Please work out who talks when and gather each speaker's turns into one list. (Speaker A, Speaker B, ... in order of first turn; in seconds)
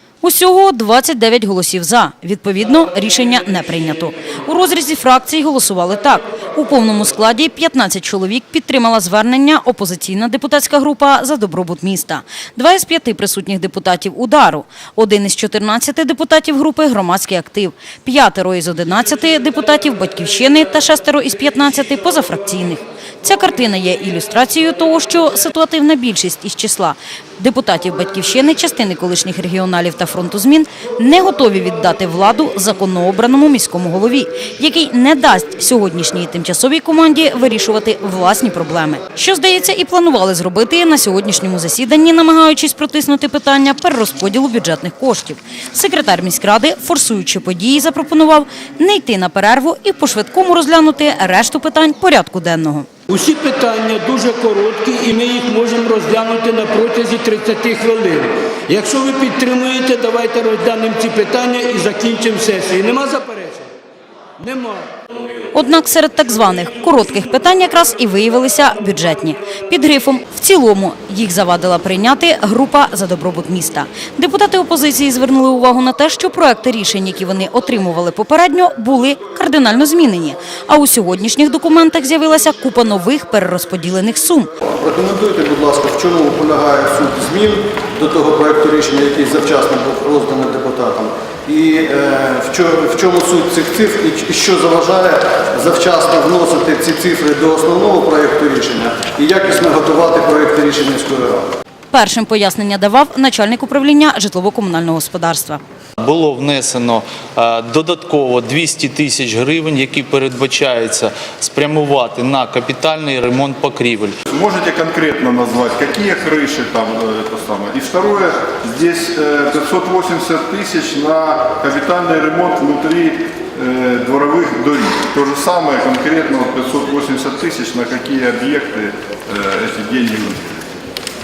Speaker A: 0.2-52.9, 65.5-84.5, 101.9-105.6
Speaker B: 53.1-63.7, 64.4-64.8
Speaker C: 84.6-101.5
Speaker D: 106.0-114.1
Speaker E: 114.3-130.7